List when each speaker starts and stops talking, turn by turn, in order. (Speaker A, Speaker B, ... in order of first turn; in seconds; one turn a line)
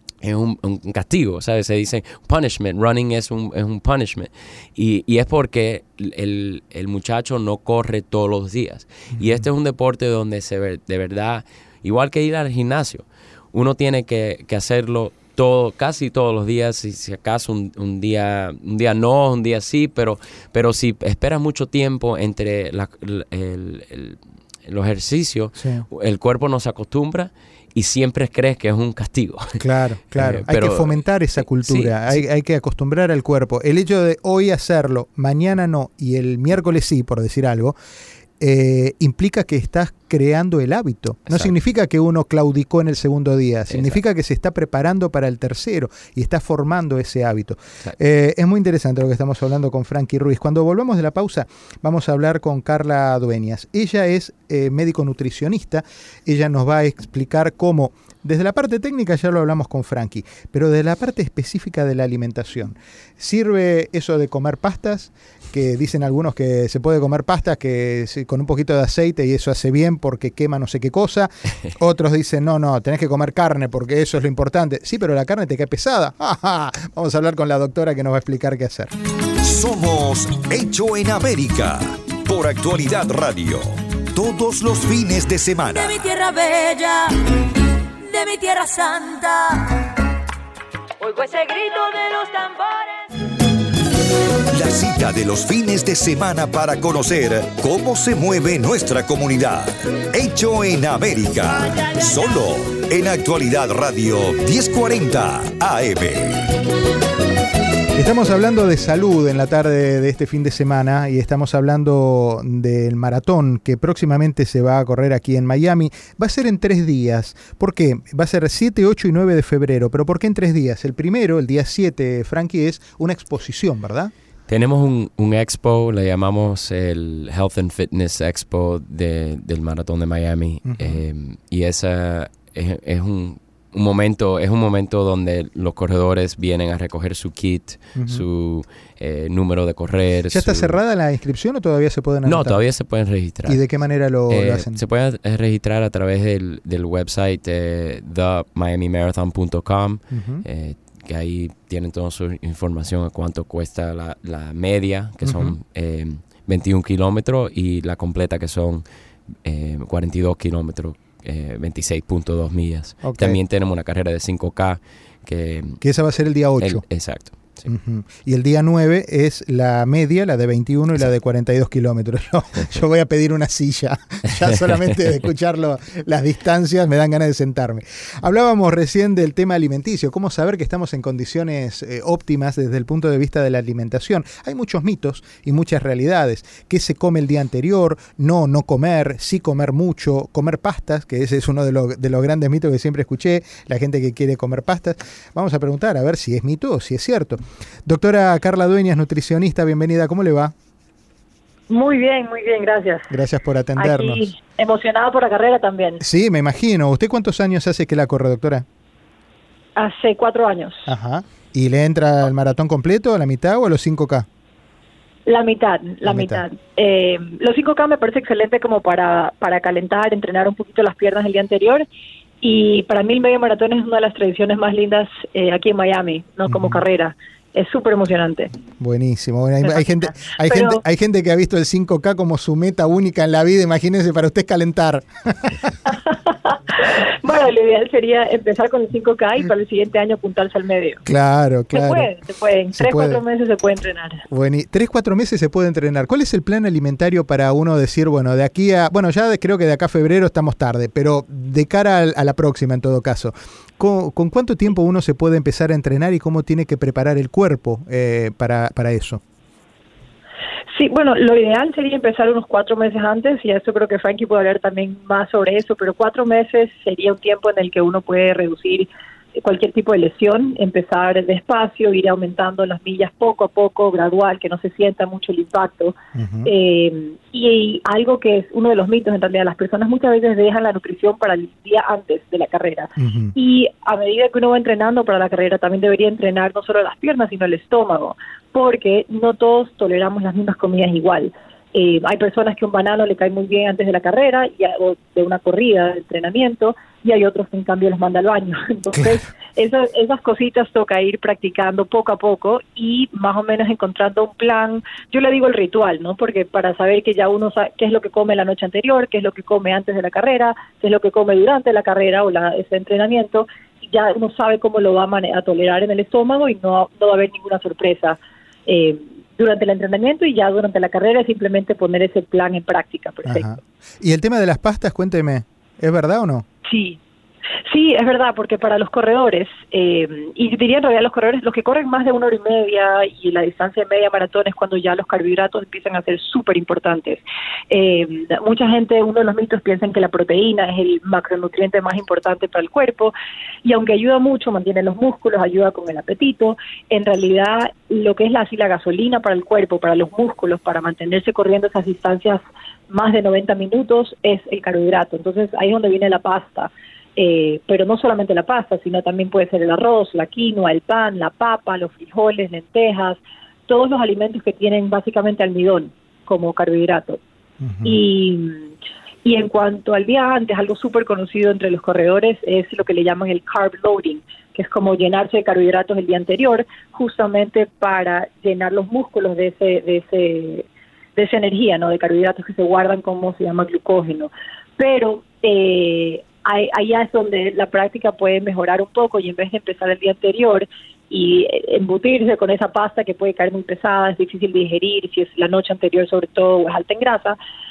Speaker A: 0.2-31.0
Speaker B: 25.6-25.9
Speaker B: 29.6-37.8
Speaker A: 31.6-32.2
Speaker B: 38.4-78.9
Speaker A: 43.7-44.0
Speaker C: 79.4-86.1
Speaker D: 85.7-87.1
Speaker D: 88.0-89.9
Speaker D: 91.0-93.1
Speaker C: 94.5-106.5
Speaker B: 107.9-124.1
Speaker A: 124.5-140.8
Speaker B: 130.7-131.0
Speaker B: 137.9-138.2
Speaker B: 140.3-142.6
Speaker A: 142.2-143.6
Speaker B: 143.4-144.8
Speaker A: 144.3-158.8
Speaker B: 150.1-150.4
Speaker B: 155.2-155.6
Speaker A: 159.4-165.8
Speaker B: 163.0-163.4
Speaker B: 165.8-166.8
Speaker A: 166.6-167.7
Speaker B: 167.7-200.5
Speaker E: 201.7-203.1
Speaker B: 203.1-204.2
Speaker E: 203.8-206.0
Speaker B: 206.0-208.7
Speaker E: 209.8-210.9
Speaker B: 210.9-214.3
Speaker E: 215.3-221.8
Speaker B: 216.0-216.4
Speaker E: 222.4-228.5
Speaker B: 226.5-226.8
Speaker B: 228.8-235.9
Speaker E: 229.6-230.8
Speaker E: 236.7-241.0
Speaker B: 241.0-242.1
Speaker E: 241.7-244.2
Speaker B: 242.7-243.2
Speaker B: 244.3-259.2
Speaker E: 260.7-323.5
Speaker B: 276.1-276.5
Speaker B: 283.0-283.3
Speaker B: 323.2-326.4
Speaker E: 326.6-327.0
Speaker E: 327.6-367.2
Speaker B: 367.6-368.0
Speaker E: 367.8-368.7
Speaker E: 369.2-397.4